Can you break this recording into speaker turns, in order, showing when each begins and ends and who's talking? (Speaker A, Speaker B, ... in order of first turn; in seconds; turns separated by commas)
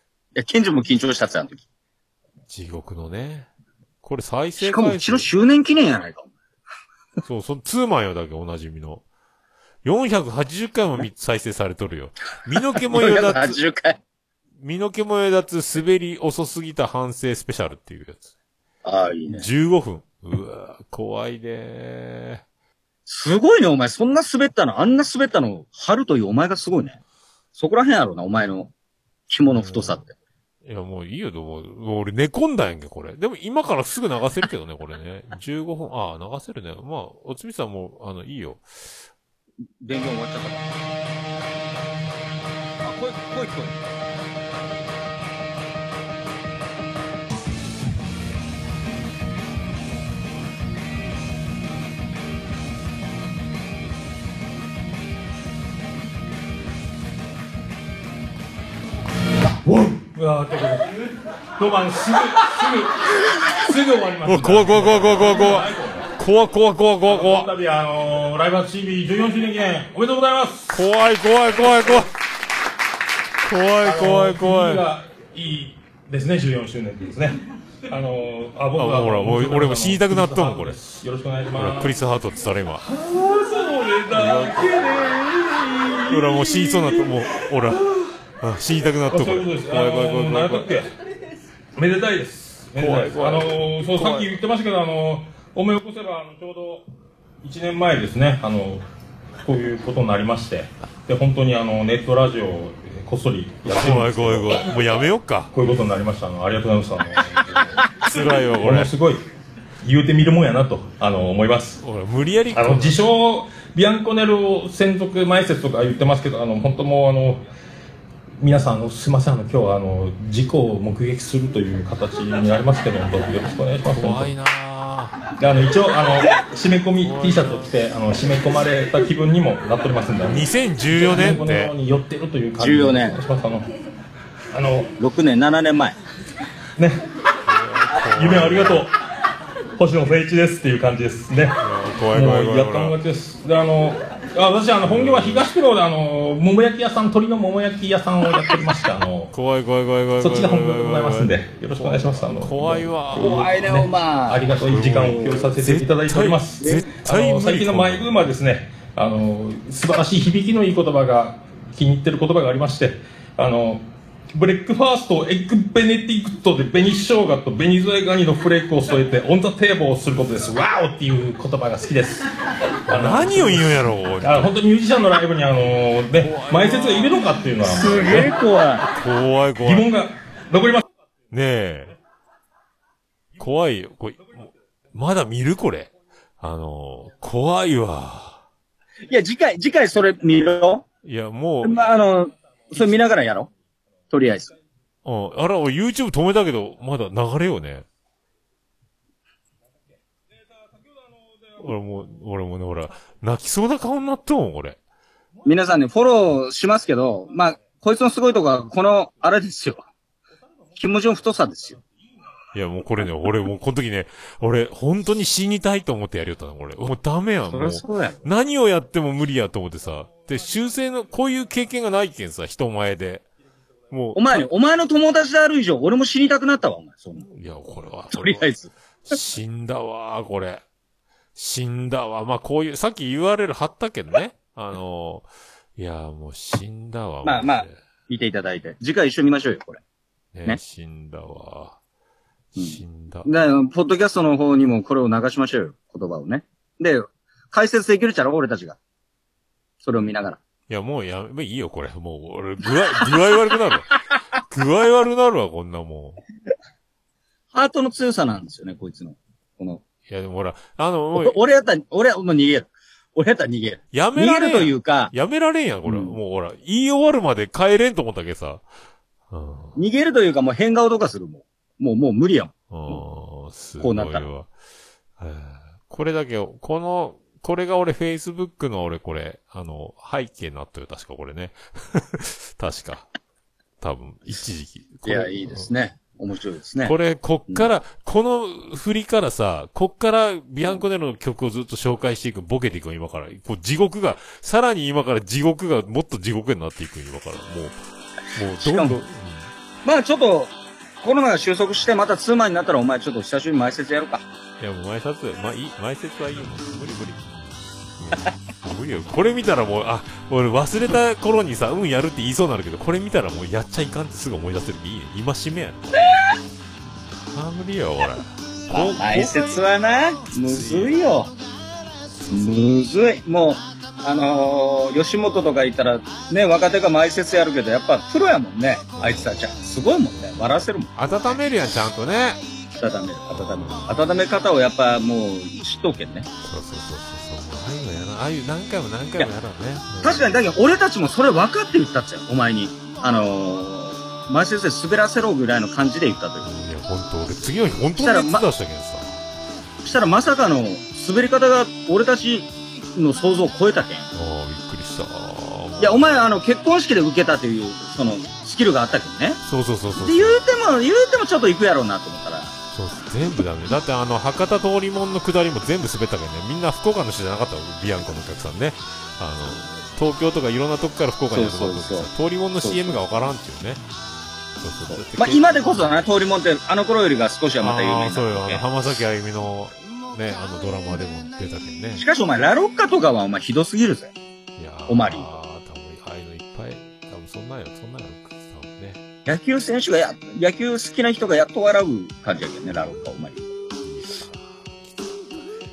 Speaker A: 0.3-1.6, Speaker B: 2.5-3.5, Speaker B: 4.0-5.3, Speaker A: 4.6-6.3, Speaker B: 7.2-9.0, Speaker B: 9.8-13.6, Speaker A: 12.8-14.0, Speaker B: 14.6-18.3, Speaker A: 18.9-19.5, Speaker B: 19.3-22.4, Speaker A: 23.1-27.0, Speaker A: 27.6-28.7, Speaker A: 29.3-30.1, Speaker B: 29.5-30.0, Speaker B: 30.6-39.0, Speaker A: 39.8-40.7, Speaker A: 42.8-43.8, Speaker C: 59.6-61.0, Speaker C: 61.6-66.1, Speaker B: 64.2-67.5, Speaker C: 67.1-70.8, Speaker B: 70.7-72.1, Speaker C: 71.6-72.1, Speaker B: 73.4-74.9, Speaker C: 73.8-81.9, Speaker B: 78.7-80.8, Speaker B: 81.5-82.8, Speaker C: 82.8-88.2, Speaker B: 84.1-84.9, Speaker B: 86.1-87.9, Speaker B: 88.4-90.9, Speaker C: 89.1-90.9, Speaker C: 91.8-96.8, Speaker B: 92.8-94.4, Speaker C: 97.4-98.8, Speaker C: 99.4-104.7, Speaker B: 103.7-105.5, Speaker C: 105.5-109.2, Speaker B: 107.3-108.9, Speaker C: 109.8-111.8, Speaker B: 111.8-113.0, Speaker C: 112.5-117.4, Speaker C: 118.4-124.3, Speaker B: 123.9-125.2, Speaker C: 125.4-133.7, Speaker B: 127.0-127.8, Speaker B: 130.2-131.7, Speaker A: 132.6-133.2, Speaker C: 134.5-134.9, Speaker A: 135.0-136.0, Speaker C: 136.8-137.0, Speaker B: 137.5-138.9, Speaker C: 138.1-139.0, Speaker C: 139.8-149.3, Speaker B: 141.6-143.0, Speaker B: 144.8-145.5, Speaker B: 149.3-153.6, Speaker C: 150.2-172.3, Speaker A: 153.2-154.5, Speaker B: 154.4-158.2, Speaker A: 156.6-156.9, Speaker C: 172.9-178.3, Speaker B: 172.9-174.6, Speaker B: 176.1-178.3, Speaker A: 177.7-178.9, Speaker B: 178.9-179.9, Speaker C: 179.6-180.8, Speaker B: 181.3-181.9, Speaker B: 183.4-188.4, Speaker A: 189.1-190.8, Speaker B: 191.0-191.8, Speaker A: 191.6-193.5, Speaker A: 194.1-194.5, Speaker B: 195.0-197.9, Speaker B: 201.6-204.8, Speaker A: 205.4-209.9, Speaker A: 210.8-211.8, Speaker B: 212.5-223.3, Speaker A: 217.5-218.2, Speaker B: 223.9-224.5, Speaker A: 224.2-227.3, Speaker B: 227.2-228.5, Speaker A: 228.1-228.7, Speaker B: 229.1-230.6, Speaker B: 231.3-237.7, Speaker A: 237.2-239.8, Speaker B: 240.3-241.8, Speaker B: 242.6-243.3, Speaker A: 242.6-248.8, Speaker A: 249.8-250.4, Speaker B: 250.7-256.2, Speaker A: 257.5-259.8, Speaker B: 260.1-261.4, Speaker A: 261.1-265.1, Speaker B: 263.9-268.7, Speaker A: 265.9-266.2, Speaker B: 269.3-269.8, Speaker A: 269.8-273.0, Speaker B: 272.7-274.5, Speaker A: 273.8-274.2, Speaker B: 275.2-283.1, Speaker B: 283.8-285.7, Speaker A: 285.1-286.9, Speaker B: 286.8-297.8, Speaker B: 298.3-299.5, Speaker A: 298.6-299.0, Speaker A: 299.9-304.2, Speaker B: 304.6-316.3, Speaker B: 317.3-319.6, Speaker A: 318.7-321.3, Speaker B: 320.3-321.1, Speaker B: 322.1-322.6, Speaker A: 322.3-330.9, Speaker B: 329.0-332.4, Speaker A: 332.8-336.3, Speaker B: 333.3-334.2, Speaker B: 336.4-340.4, Speaker A: 340.0-346.5, Speaker B: 346.4-349.2, Speaker A: 348.0-348.5, Speaker A: 349.8-354.1, Speaker B: 354.1-356.3, Speaker A: 355.8-359.4, Speaker B: 359.4-360.4, Speaker A: 360.0-362.5, Speaker B: 362.7-373.8, Speaker A: 371.3-372.1, Speaker A: 372.6-373.0, Speaker B: 374.6-375.9, Speaker A: 374.9-378.6, Speaker B: 377.6-382.0, Speaker A: 382.0-384.1, Speaker B: 384.6-389.0, Speaker A: 384.9-385.2, Speaker A: 389.3-393.4, Speaker B: 393.8-395.3